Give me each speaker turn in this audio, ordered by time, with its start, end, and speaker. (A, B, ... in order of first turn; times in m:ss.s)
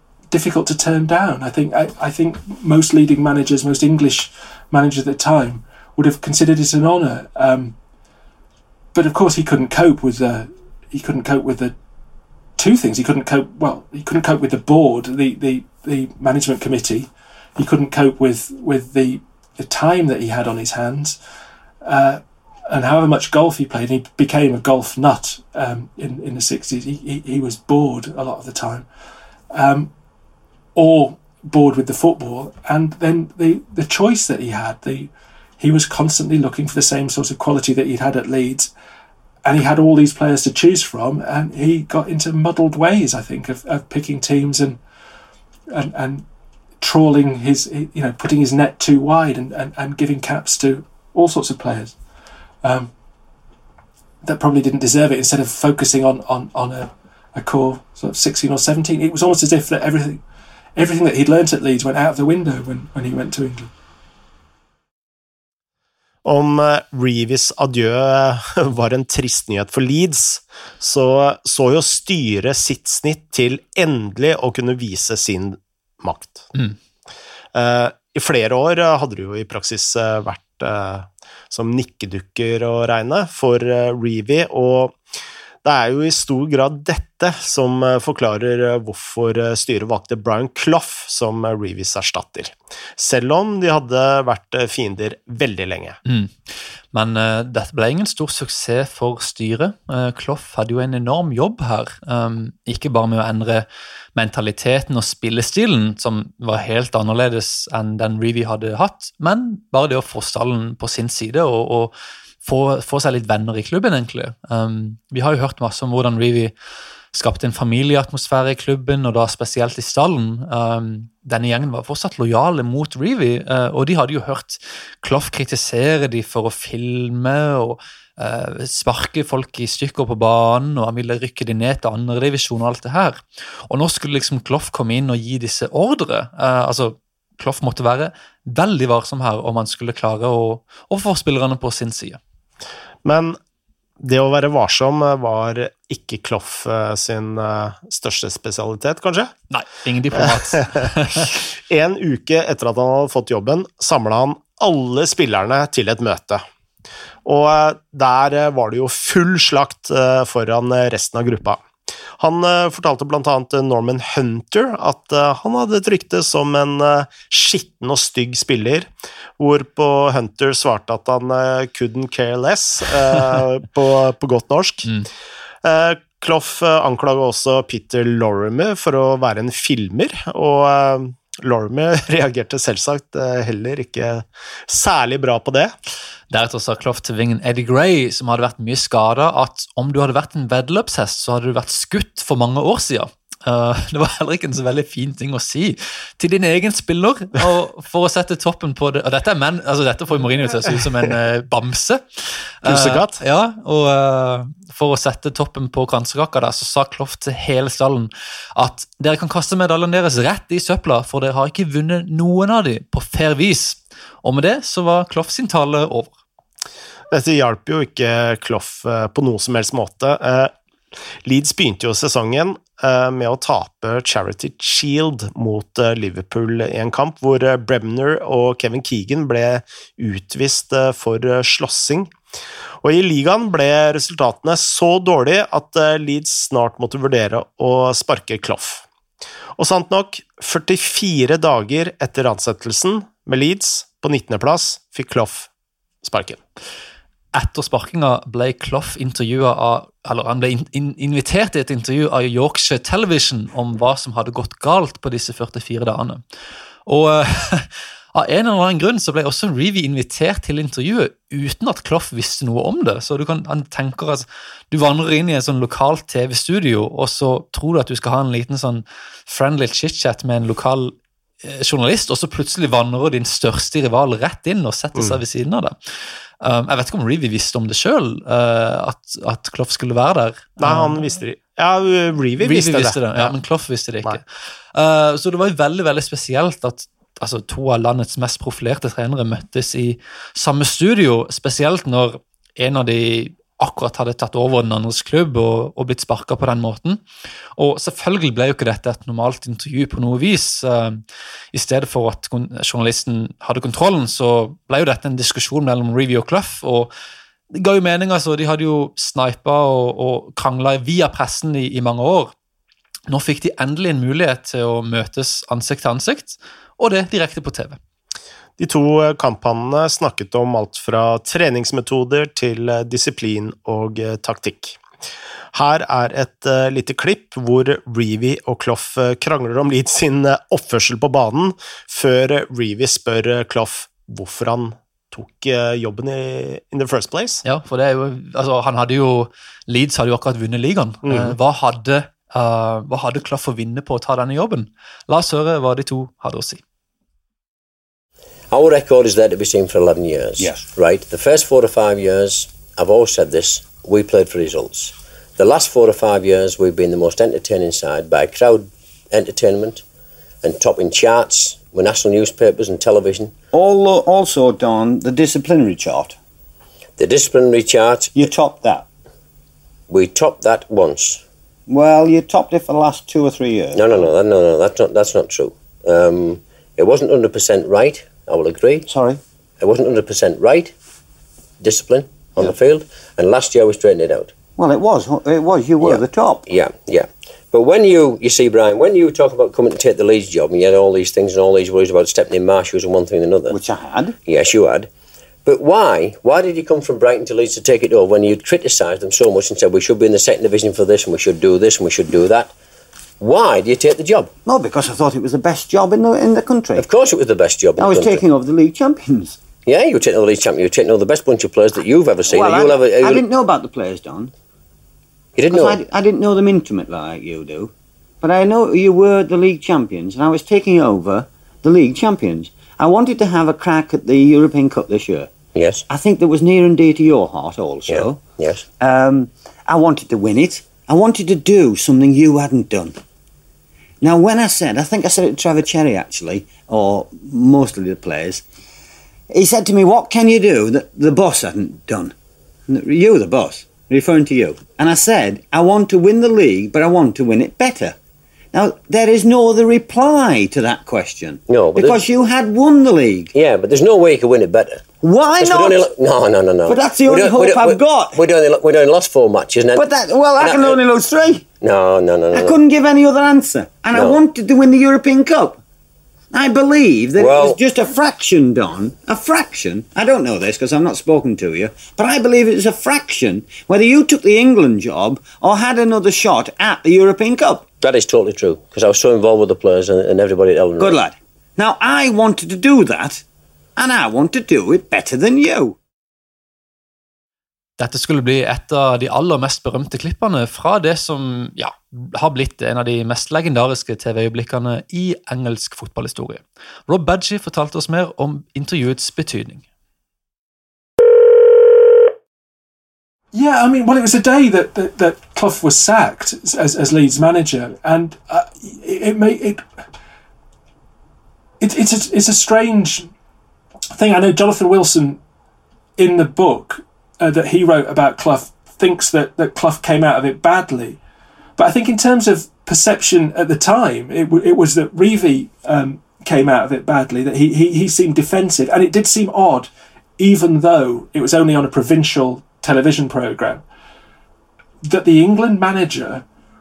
0:00.3-0:07.8 A
0:08.9-0:11.7 A
0:12.6-0:21.2 A
0:21.8-0:28.9 A
0:29.5-0:29.9 A
0:30.7-0:38.7 A
0:39.4-0:44.8 A
0:45.7-0:46.2 A
0:46.8-0:51.9 A
0:52.6-0:52.9 A
0:54.2-1:00.2 A
1:00.8-1:03.7 A
1:06.2-1:16.5 B
1:17.5-1:25.0 B
1:25.6-1:36.0 B
1:36.0-1:36.3 C
1:36.9-1:56.5 C
1:57.1-2:22.2 C
2:23.0-2:23.4 B
2:24.0-2:29.3 B
2:29.5-2:31.3 C
2:30.2-2:36.4 B
2:37.2-2:41.6 B
2:42.2-2:54.9 B
2:55.6-3:05.7 B
3:06.3-3:36.1 C
3:22.6-3:23.2 B
3:37.1-3:40.5 B
3:41.2-3:52.1 B
3:52.8-3:58.8 B
3:59.6-4:05.5 B
4:06.0-4:06.4 B
4:07.3-4:16.2 C
4:16.8-4:41.1 C
4:34.9-4:35.2 B
4:40.6-4:43.3 B
4:42.4-4:57.0 C
4:57.6-5:06.9 C
5:07.5-5:12.3 C
5:13.1-5:17.8 C
5:18.6-5:24.8 B
5:25.5-5:37.4 B
5:37.4-5:46.6 C
5:41.0-5:41.4 B
5:48.5-5:59.8 D
5:50.4-5:50.6 E
6:00.4-6:03.3 D
6:03.5-6:06.2 E
6:07.0-6:08.1 D
6:08.1-6:08.9 E
6:09.9-6:11.2 D
6:11.7-6:14.1 E
6:13.7-6:18.9 D
6:18.9-6:19.2 E
6:19.6-6:20.7 D
6:21.6-6:24.3 D
6:24.6-6:26.4 E
6:25.8-6:33.6 D
6:33.5-6:34.1 E
6:34.2-6:34.9 D
6:35.4-6:42.5 D
6:43.2-6:44.3 D
6:44.4-6:46.8 E
6:46.8-6:48.2 D
6:47.8-6:49.4 E
6:49.6-6:53.2 D
6:52.2-6:54.3 E
6:55.4-6:55.8 D
6:55.5-7:05.3 E
7:05.5-7:05.8 D
7:05.9-7:08.2 E
7:07.9-7:08.6 D
7:08.8-7:13.0 E
7:14.0-7:18.4 E
7:19.3-7:22.1 E
7:22.7-7:28.0 E
7:28.5-7:33.3 E
7:31.5-7:32.0 D
7:33.3-7:34.9 D
7:35.0-7:35.8 E
7:35.4-7:39.9 D
7:36.7-7:38.2 E
7:39.7-7:41.4 E
7:40.4-7:40.8 D
7:41.6-7:42.6 D
7:42.3-7:45.6 E
7:43.9-7:44.2 D
7:46.3-7:57.7 E
7:47.2-7:47.6 D
7:57.8-8:01.0 D
8:00.8-8:03.2 E
8:03.8-8:05.8 E
8:07.8-8:19.6 C
8:23.3-8:29.6 A
8:31.6-8:33.1 A
8:33.9-8:35.2 A
8:36.0-8:41.0 A
8:41.6-8:53.6 A
8:54.8-8:56.2 A